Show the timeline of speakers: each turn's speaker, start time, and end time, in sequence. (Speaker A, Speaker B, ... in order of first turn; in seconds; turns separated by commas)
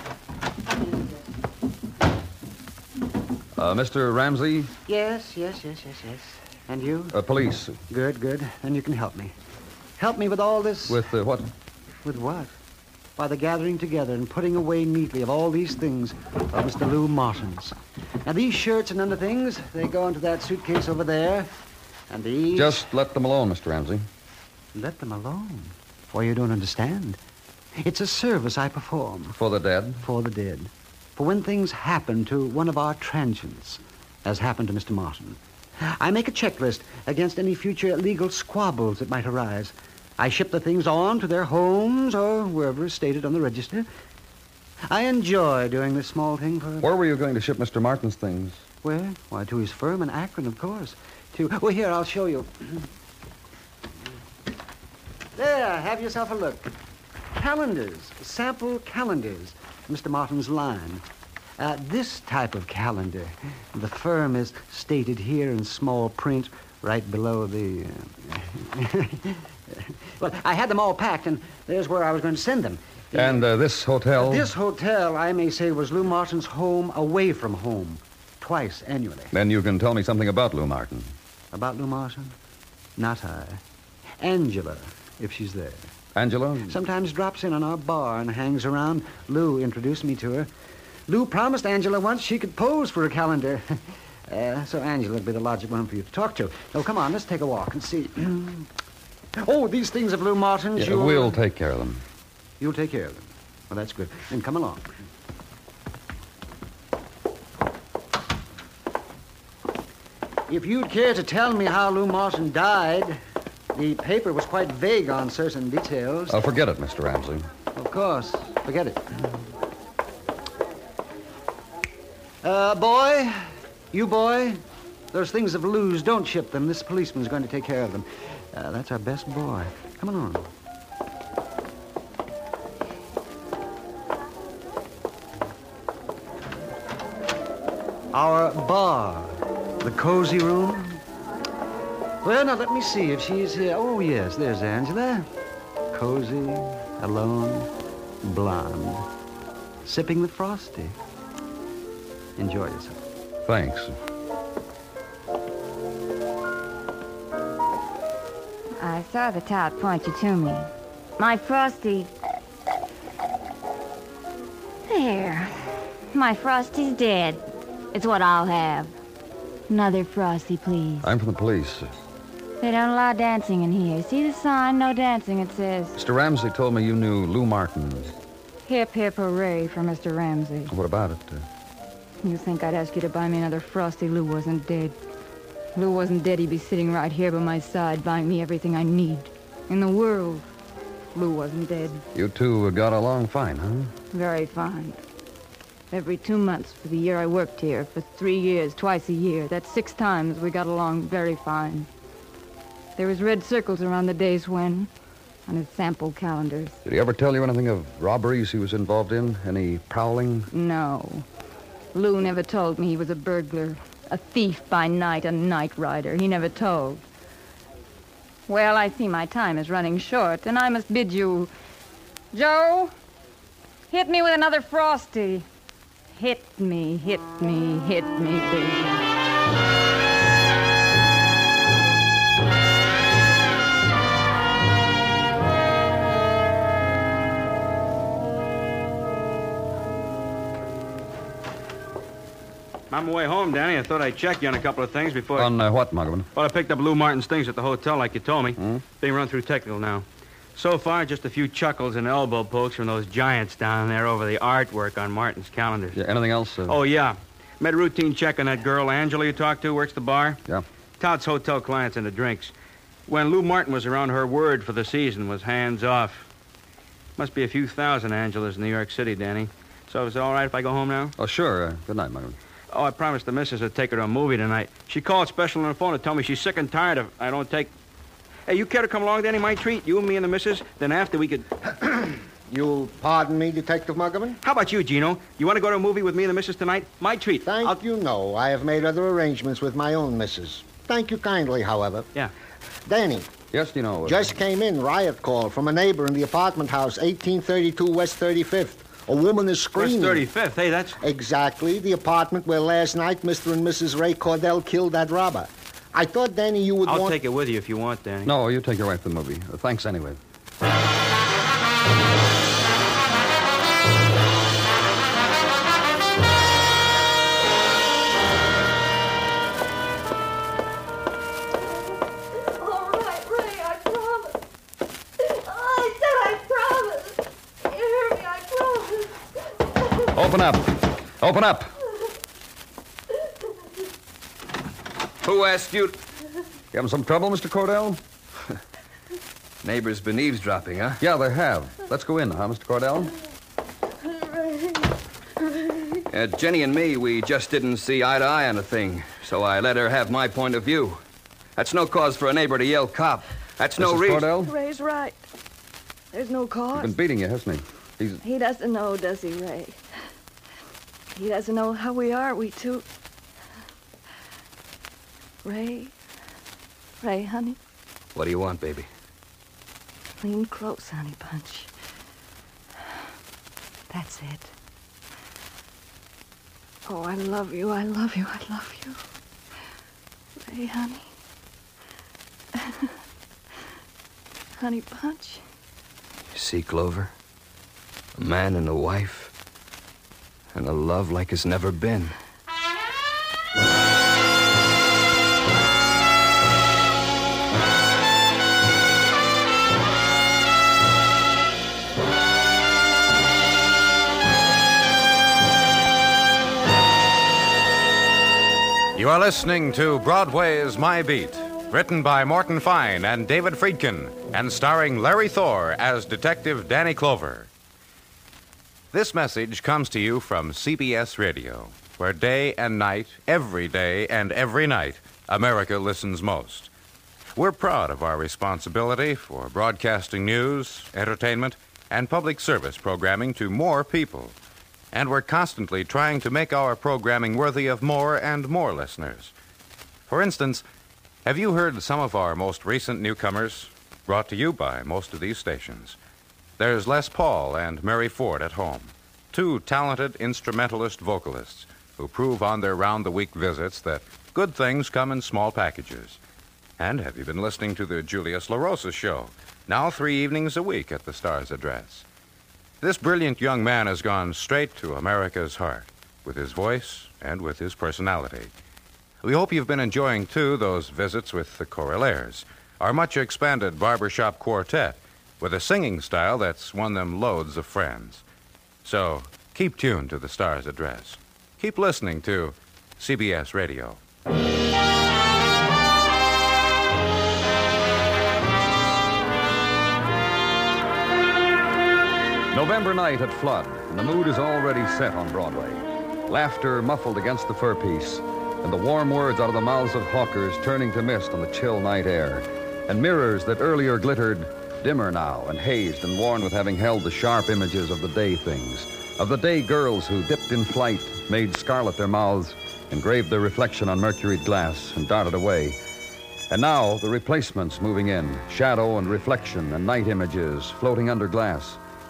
Speaker A: 0.7-1.3, Speaker B: 3.6-4.7, Speaker A: 4.9-7.2, Speaker B: 7.1-7.8, Speaker A: 7.9-9.3, Speaker A: 10.0-11.0, Speaker B: 10.9-11.5, Speaker A: 12.1-12.5, Speaker A: 13.2-21.5, Speaker A: 22.1-22.9, Speaker B: 22.5-24.1, Speaker A: 24.8-27.2, Speaker A: 27.8-29.4, Speaker B: 29.4-30.1, Speaker A: 30.0-43.9, Speaker A: 44.9-46.9, Speaker B: 46.8-48.6, Speaker A: 48.8-52.9, Speaker A: 55.4-56.7, Speaker A: 57.3-61.0, Speaker A: 61.6-73.4, Speaker B: 73.1-74.5, Speaker A: 74.2-79.3, Speaker B: 79.3-81.2, Speaker A: 81.5-82.3, Speaker A: 83.0-83.6, Speaker A: 84.2-85.9, Speaker B: 86.2-86.8, Speaker A: 86.7-90.5, Speaker A: 91.1-98.7, Speaker A: 99.4-101.4, Speaker B: 100.8-102.0, Speaker A: 102.6-104.9, Speaker A: 110.5-113.2, Speaker A: 113.7-116.5, Speaker B: 116.3-117.5, Speaker A: 117.8-119.4, Speaker A: 122.4-124.6, Speaker A: 125.1-130.5, Speaker A: 138.1-141.0, Speaker A: 142.2-145.3, Speaker A: 145.9-147.7, Speaker A: 148.2-149.1, Speaker A: 149.8-151.0, Speaker A: 152.4-153.0, Speaker B: 153.5-153.9, Speaker C: 158.8-162.1, Speaker C: 164.9-168.9, Speaker C: 169.7-171.1, Speaker B: 171.0-171.9, Speaker C: 172.6-176.0, Speaker B: 176.0-178.2, Speaker C: 178.7-180.7, Speaker B: 180.7-181.4, Speaker C: 182.2-184.9, Speaker C: 185.8-190.5, Speaker C: 191.1-192.0, Speaker B: 192.2-193.9, Speaker C: 194.1-195.0, Speaker C: 195.9-201.9, Speaker C: 203.0-204.9, Speaker C: 205.5-206.8, Speaker B: 206.8-210.5, Speaker C: 210.5-211.3, Speaker C: 211.9-217.0, Speaker C: 218.5-221.5, Speaker C: 222.3-222.9, Speaker C: 223.9-225.5, Speaker C: 226.1-229.1, Speaker D: 242.9-245.5, Speaker B: 245.3-246.3, Speaker D: 246.3-256.0, Speaker B: 255.9-256.8, Speaker D: 256.7-260.4, Speaker D: 261.0-262.5, Speaker D: 263.1-266.3, Speaker D: 267.2-271.1, Speaker B: 271.2-272.4, Speaker D: 272.7-277.7, Speaker D: 278.5-281.5, Speaker E: 282.5-284.4, Speaker D: 284.4-287.8, Speaker E: 287.4-292.1, Speaker E: 292.9-293.3, Speaker B: 293.5-294.3, Speaker E: 294.1-300.3, Speaker D: 299.8-301.0, Speaker E: 301.0-307.2, Speaker D: 306.9-308.3, Speaker B: 308.2-310.2, Speaker F: 322.6-324.4, Speaker F: 325.4-327.2, Speaker F: 327.7-329.1, Speaker B: 330.1-331.8, Speaker G: 335.2-336.0, Speaker B: 336.7-338.0, Speaker G: 339.6-341.0, Speaker B: 341.0-343.1, Speaker G: 346.1-351.0, Speaker G: 351.6-354.3, Speaker B: 353.8-354.5, Speaker F: 354.4-355.2, Speaker F: 356.1-356.9, Speaker B: 356.7-358.2, Speaker F: 358.2-359.8, Speaker F: 361.1-362.9, Speaker F: 365.4-365.9, Speaker F: 367.0-367.6, Speaker G: 368.1-368.9, Speaker F: 370.2-371.7, Speaker F: 373.9-374.5, Speaker F: 376.9-379.0, Speaker F: 380.4-381.1, Speaker F: 382.6-382.9, Speaker F: 384.6-385.4, Speaker G: 386.3-387.1, Speaker G: 388.2-389.3, Speaker G: 390.5-392.2, Speaker H: 408.9-417.5, Speaker H: 418.9-426.7, Speaker H: 427.4-434.4, Speaker H: 434.9-439.3, Speaker H: 440.1-440.6, Speaker H: 441.2-446.0, Speaker H: 446.6-456.2, Speaker H: 456.8-462.1, Speaker H: 462.8-468.5, Speaker H: 469.2-478.2, Speaker H: 478.8-484.0, Speaker B: 492.5-515.8, Speaker B: 516.5-521.8